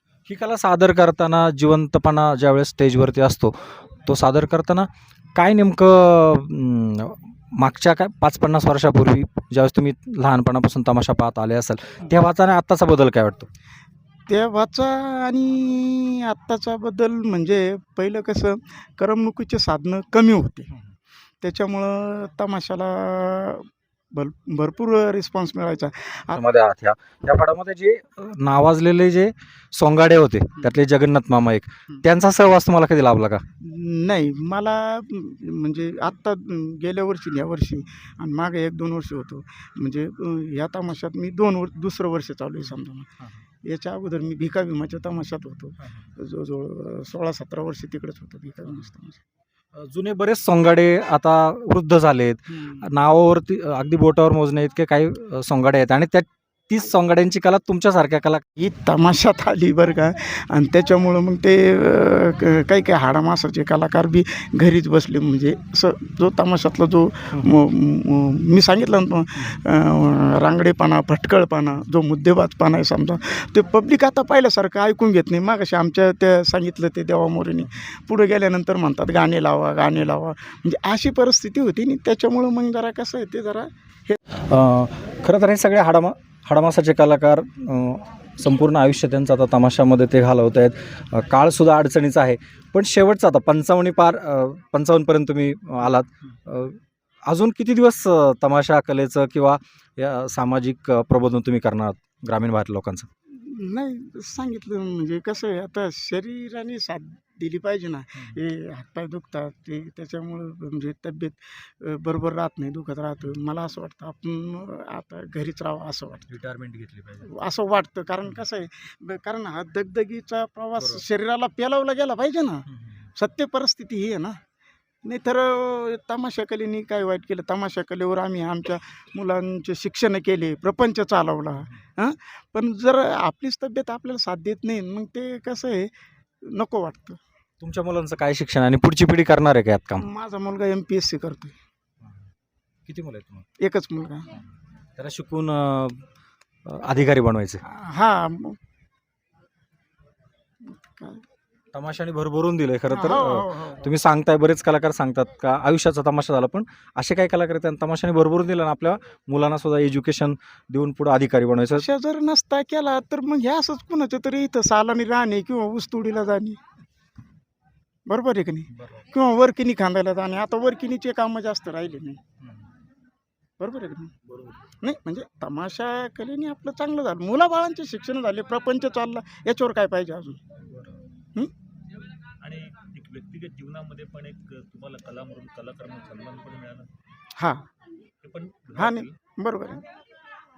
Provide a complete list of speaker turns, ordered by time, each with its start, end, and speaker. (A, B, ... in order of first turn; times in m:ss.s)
0:00.2-0:13.5 A
0:14.3-0:20.7 B
0:21.4-0:26.4 B
0:26.3-0:33.4 A
0:33.6-0:43.1 B
0:43.6-0:49.2 B
0:49.8-0:58.4 A
0:58.6-1:24.2 B
1:24.5-1:43.1 A
1:43.3-1:56.4 B
1:56.3-1:57.2 A
1:57.2-2:04.4 B
2:00.8-2:01.0 A
2:05.0-2:15.9 B
2:16.4-2:17.2 B
2:17.6-2:20.0 A
2:20.0-2:21.6 B
2:22.8-2:23.5 A
2:23.6-2:24.3 B
2:25.0-2:26.0 A
2:26.6-2:27.6 A
2:27.6-2:28.6 B
2:30.6-2:31.2 B
2:31.7-2:41.8 A
2:32.9-2:33.9 B
2:41.8-2:46.6 B
2:48.1-2:52.2 B
2:53.6-2:54.1 B
2:54.2-2:54.6 C
2:54.8-3:00.4 B
3:02.4-3:06.9 C
3:07.4-3:07.6 B
3:08.2-3:09.1 C
3:08.7-3:09.8 B